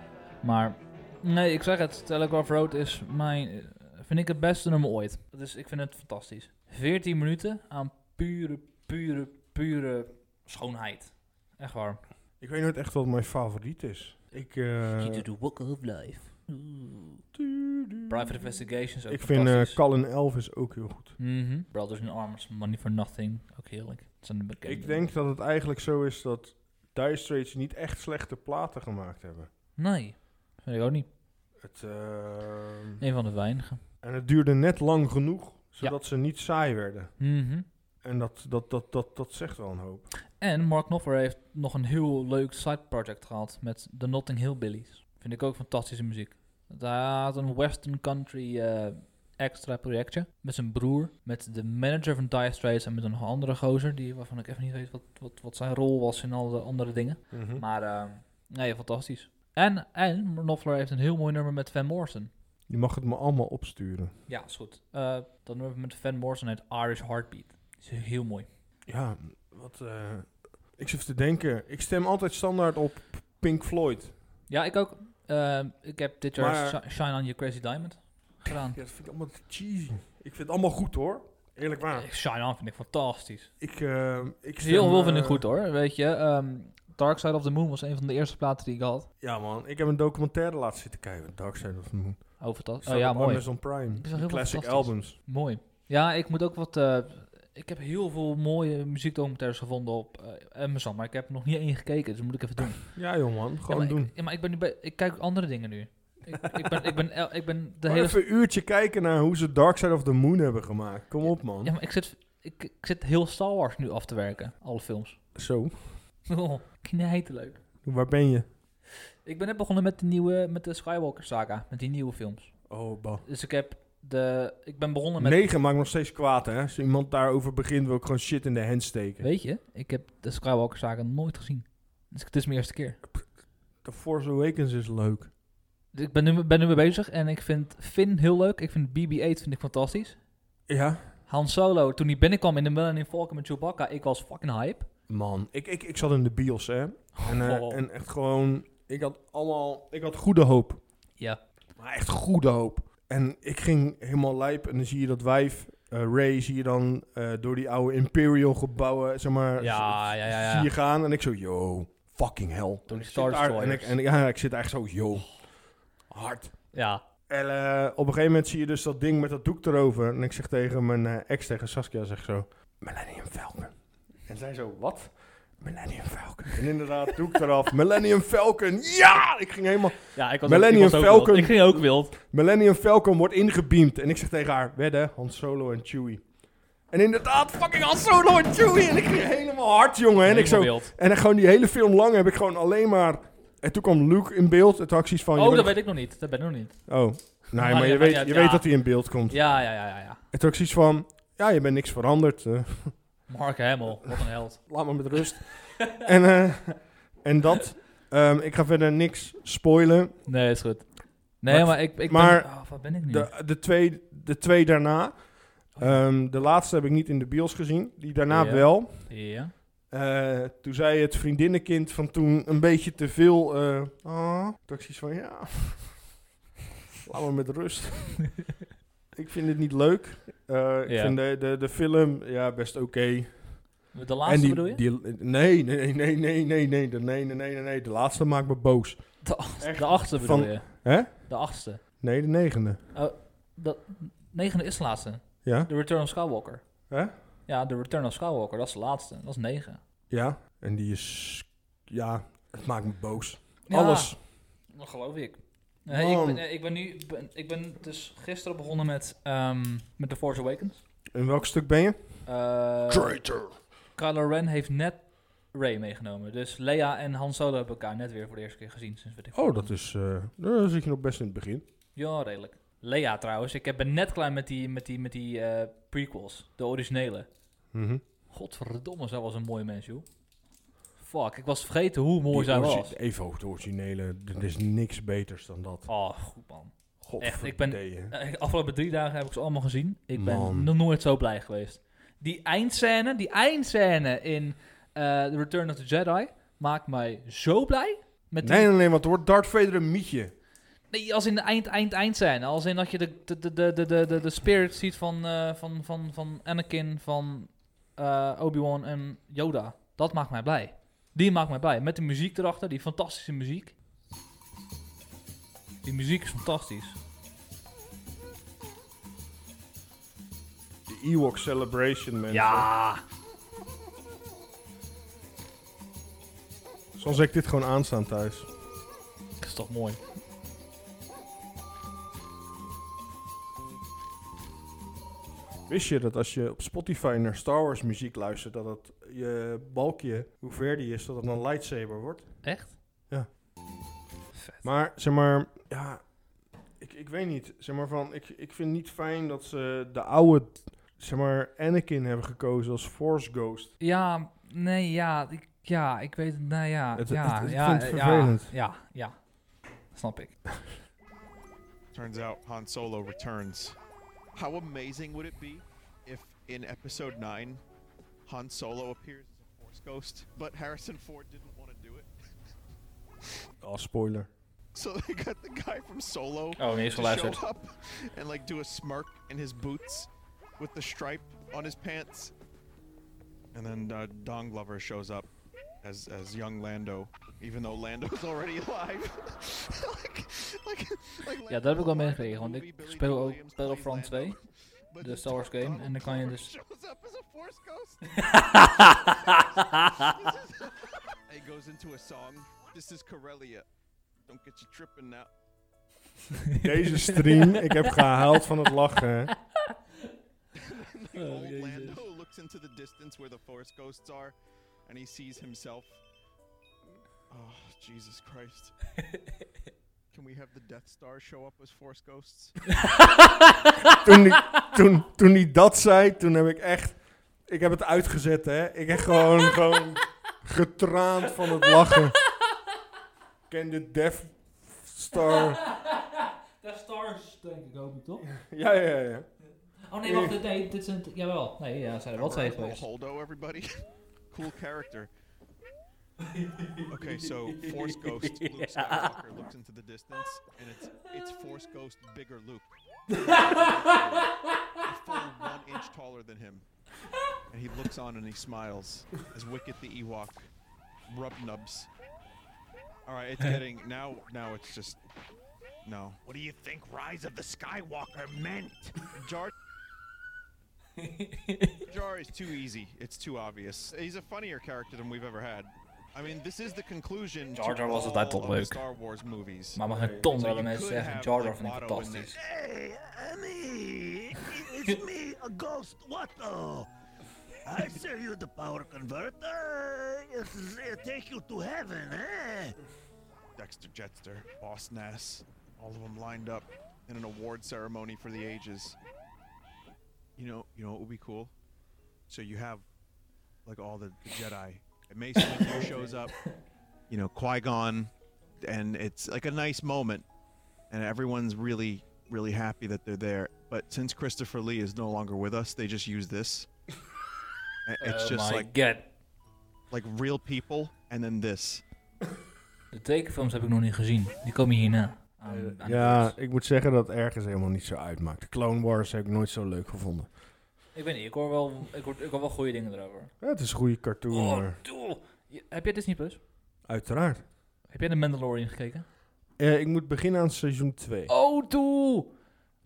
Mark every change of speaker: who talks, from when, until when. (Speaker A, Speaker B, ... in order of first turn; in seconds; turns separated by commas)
Speaker A: 0.4-12.0, Speaker B: 12.4-15.2, Speaker A: 15.0-17.2, Speaker B: 17.3-18.3, Speaker A: 18.1-19.8, Speaker B: 19.1-21.2, Speaker A: 21.2-25.0, Speaker B: 24.6-29.5, Speaker A: 29.8-31.1, Speaker B: 31.6-33.0, Speaker A: 33.0-33.8, Speaker B: 34.0-37.2, Speaker A: 37.2-37.6, Speaker B: 38.0-40.1, Speaker A: 40.4-62.3, Speaker B: 57.3-57.6, Speaker B: 62.7-64.1, Speaker A: 64.3-68.5, Speaker B: 68.9-74.1, Speaker A: 74.5-78.8, Speaker B: 76.4-76.8, Speaker B: 78.5-82.0, Speaker A: 81.9-83.5, Speaker B: 83.6-85.4, Speaker A: 84.6-89.1, Speaker B: 89.2-95.2, Speaker A: 92.4-103.0, Speaker B: 102.9-104.1, Speaker A: 103.7-108.2, Speaker B: 107.8-111.7, Speaker A: 111.6-115.2, Speaker B: 115.3-116.0, Speaker A: 116.3-117.6, Speaker B: 117.8-118.5, Speaker A: 119.2-122.7, Speaker B: 122.7-123.2, Speaker A: 123.2-125.5, Speaker B: 125.2-129.2, Speaker A: 129.2-133.0, Speaker B: 133.8-135.3, Speaker A: 135.9-140.2, Speaker B: 140.7-141.1, Speaker A: 141.3-144.9, Speaker B: 145.1-150.8, Speaker A: 147.2-147.8, Speaker B: 151.8-166.8, Speaker A: 159.6-160.7, Speaker A: 162.9-164.0, Speaker A: 166.7-167.0, Speaker B: 167.3-186.3, Speaker A: 180.1-182.1, Speaker B: 186.9-195.8, Speaker A: 190.2-190.9, Speaker A: 195.3-200.2, Speaker B: 196.9-203.1, Speaker A: 203.3-204.7, Speaker B: 204.7-210.2, Speaker A: 210.2-213.3, Speaker B: 211.4-219.3, Speaker A: 215.8-216.0, Speaker A: 218.3-219.5, Speaker B: 219.9-226.0, Speaker B: 227.1-228.3, Speaker B: 229.1-241.3, Speaker A: 230.8-231.2, Speaker A: 233.9-234.8, Speaker A: 239.2-241.8, Speaker B: 242.0-242.9, Speaker A: 242.9-246.9, Speaker B: 245.4-245.7, Speaker B: 246.9-247.2, Speaker A: 247.4-249.8, Speaker B: 250.1-254.2, Speaker A: 253.7-260.8, Speaker B: 255.9-256.4, Speaker B: 261.1-262.2, Speaker A: 262.2-263.2, Speaker B: 262.9-263.5, Speaker A: 263.9-269.7, Speaker B: 269.3-271.6, Speaker A: 271.9-277.3, Speaker B: 277.7-278.0, Speaker A: 278.3-280.1, Speaker A: 281.0-282.9, Speaker B: 282.3-285.9, Speaker A: 285.9-298.7, Speaker B: 287.0-288.1, Speaker B: 290.1-290.7, Speaker B: 298.4-300.3, Speaker A: 300.9-313.7, Speaker A: 315.8-317.0, Speaker B: 320.9-322.7, Speaker A: 322.3-323.0, Speaker B: 327.0-328.5, Speaker A: 329.4-330.0, Speaker B: 335.7-342.4, Speaker A: 342.4-342.8, Speaker A: 344.3-344.6, Speaker B: 344.6-346.2, Speaker B: 346.7-353.7, Speaker A: 353.8-359.3, Speaker B: 357.0-358.5, Speaker A: 359.9-360.4, Speaker C: 361.9-363.8, Speaker C: 364.3-367.6, Speaker C: 368.2-372.1, Speaker B: 373.6-374.3, Speaker C: 374.7-380.1, Speaker A: 376.6-377.4, Speaker C: 380.6-382.3, Speaker C: 383.5-385.3, Speaker C: 385.8-394.4, Speaker A: 391.5-394.4, Speaker C: 394.9-398.2, Speaker A: 395.0-396.5, Speaker A: 398.1-400.3, Speaker C: 399.1-400.7, Speaker C: 401.3-403.6, Speaker C: 404.3-405.3, Speaker A: 406.4-407.9, Speaker B: 406.6-409.3, Speaker C: 410.5-414.3, Speaker A: 411.1-412.1, Speaker C: 414.9-416.0, Speaker C: 417.3-418.7, Speaker C: 420.1-422.6, Speaker A: 422.8-423.7, Speaker B: 424.0-432.2, Speaker A: 431.4-432.0, Speaker B: 433.5-435.6, Speaker A: 435.1-438.2, Speaker B: 438.3-439.3, Speaker A: 439.9-442.8, Speaker B: 440.0-440.3, Speaker C: 442.1-443.7, Speaker C: 444.3-445.1, Speaker A: 446.2-449.2, Speaker C: 446.9-452.7, Speaker A: 453.2-454.5, Speaker C: 453.2-454.2, Speaker C: 454.8-456.6, Speaker C: 457.5-460.5, Speaker C: 461.1-461.9, Speaker C: 463.1-465.0, Speaker C: 465.8-466.2, Speaker D: 466.2-469.0, Speaker C: 469.1-469.5, Speaker A: 471.0-471.8, Speaker C: 471.9-482.3, Speaker A: 477.5-478.8, Speaker A: 479.7-482.4, Speaker B: 479.9-480.2, Speaker D: 482.3-486.9, Speaker D: 487.6-492.7, Speaker C: 493.6-498.9, Speaker C: 500.4-501.5, Speaker C: 502.3-502.8, Speaker C: 503.6-506.3, Speaker A: 505.4-506.1, Speaker C: 507.1-508.1, Speaker C: 508.6-510.2, Speaker C: 510.9-516.7, Speaker C: 517.9-518.7, Speaker A: 518.0-519.1, Speaker C: 519.9-521.8, Speaker A: 522.9-526.3, Speaker B: 525.5-530.3, Speaker A: 530.9-533.3, Speaker B: 533.4-534.8, Speaker A: 534.3-536.4, Speaker B: 536.9-537.4, Speaker A: 537.9-539.0, Speaker B: 539.6-541.3, Speaker A: 541.3-542.3